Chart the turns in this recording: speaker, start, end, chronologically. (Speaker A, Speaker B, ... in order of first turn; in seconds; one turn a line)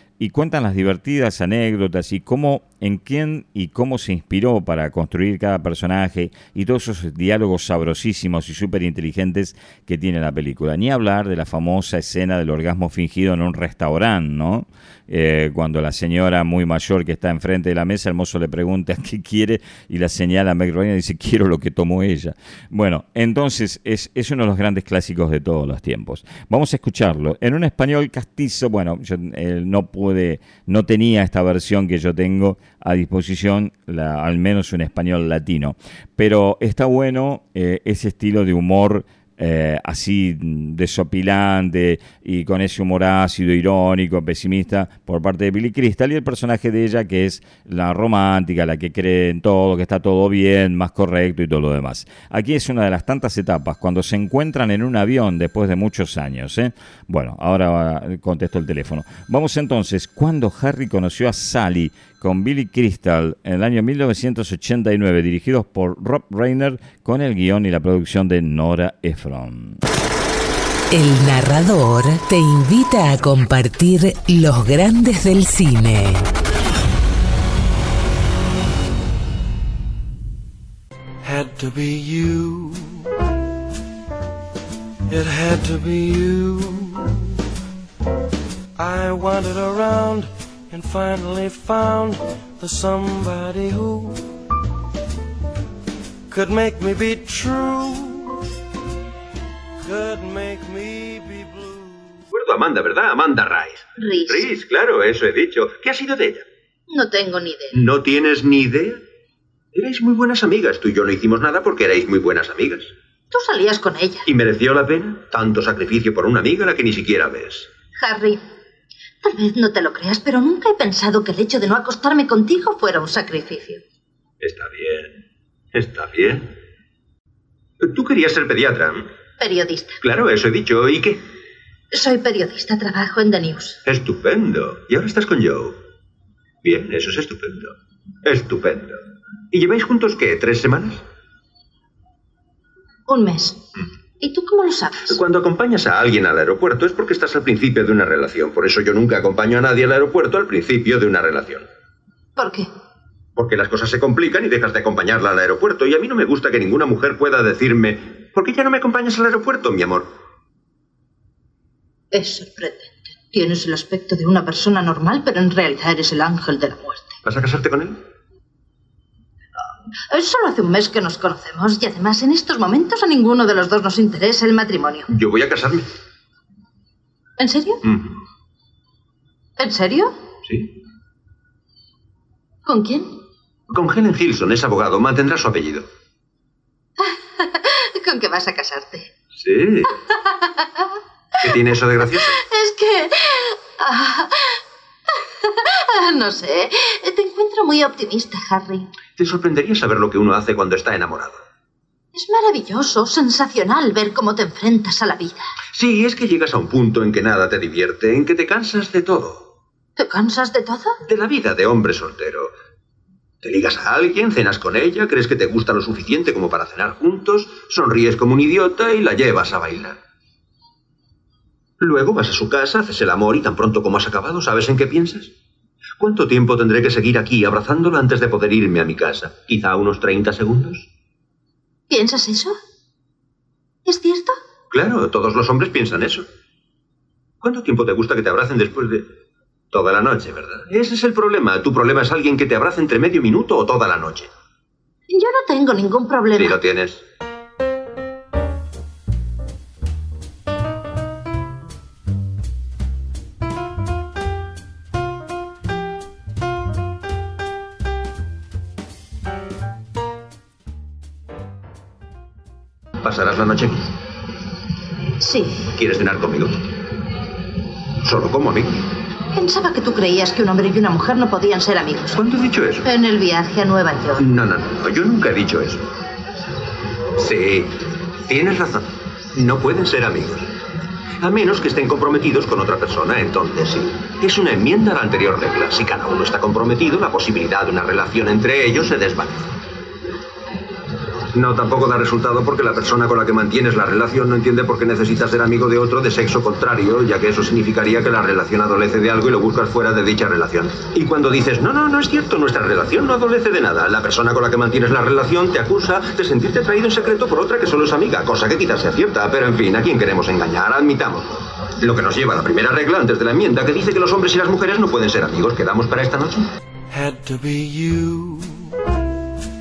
Speaker A: 0.2-69.8
Speaker B: 70.9-76.3
Speaker C: 81.2-83.1
Speaker C: 85.1-87.3
Speaker C: 88.8-94.3
Speaker C: 96.3-98.4
Speaker C: 99.8-102.2
Speaker D: 102.3-106.5
Speaker E: 104.0-104.5
Speaker E: 106.9-107.8
Speaker D: 107.7-109.0
Speaker D: 109.7-112.9
Speaker E: 113.3-114.3
Speaker D: 114.3-117.7
Speaker E: 118.0-118.4
Speaker E: 119.2-123.8
Speaker D: 124.4-125.2
Speaker D: 125.7-126.5
Speaker D: 127.8-129.1
Speaker E: 129.4-130.0
Speaker D: 130.0-131.2
Speaker E: 131.9-133.8
Speaker D: 133.9-135.8
Speaker D: 136.6-139.0
Speaker D: 139.5-141.0
Speaker E: 143.1-143.7
Speaker E: 144.2-145.2
Speaker D: 145.1-151.7
Speaker E: 152.4-152.7
Speaker D: 153.4-160.1
Speaker E: 162.1-167.2
Speaker D: 167.2-168.0
Speaker E: 170.1-175.1
Speaker D: 175.1-175.9
Speaker E: 177.4-177.8
Speaker D: 177.8-178.1
Speaker E: 179.6-180.1
Speaker D: 180.5-180.7
Speaker E: 182.7-183.1
Speaker D: 183.7-185.9
Speaker E: 187.0-189.1
Speaker D: 189.4-189.9
Speaker E: 190.1-191.0
Speaker D: 191.4-192.4
Speaker E: 192.4-194.6
Speaker E: 195.1-198.9
Speaker D: 199.2-201.4
Speaker E: 202.1-205.5
Speaker D: 205.7-209.4
Speaker E: 210.0-211.0
Speaker D: 211.1-212.5
Speaker D: 213.4-220.0
Speaker D: 221.8-225.3
Speaker D: 226.0-230.9
Speaker E: 231.9-232.6
Speaker E: 233.8-234.4
Speaker D: 234.7-236.3
Speaker D: 237.4-239.1
Speaker D: 239.7-244.3
Speaker E: 245.1-246.6
Speaker D: 246.4-247.0
Speaker D: 263.0-263.9
Speaker E: 265.2-265.6
Speaker D: 265.7-266.7
Speaker D: 268.0-268.8
Speaker E: 269.3-272.2
Speaker D: 272.1-272.9
Speaker E: 272.8-274.2
Speaker D: 274.2-275.9
Speaker D: 277.2-280.5
Speaker D: 281.2-289.5
Speaker D: 291.3-316.5
Speaker C: 316.9-318.8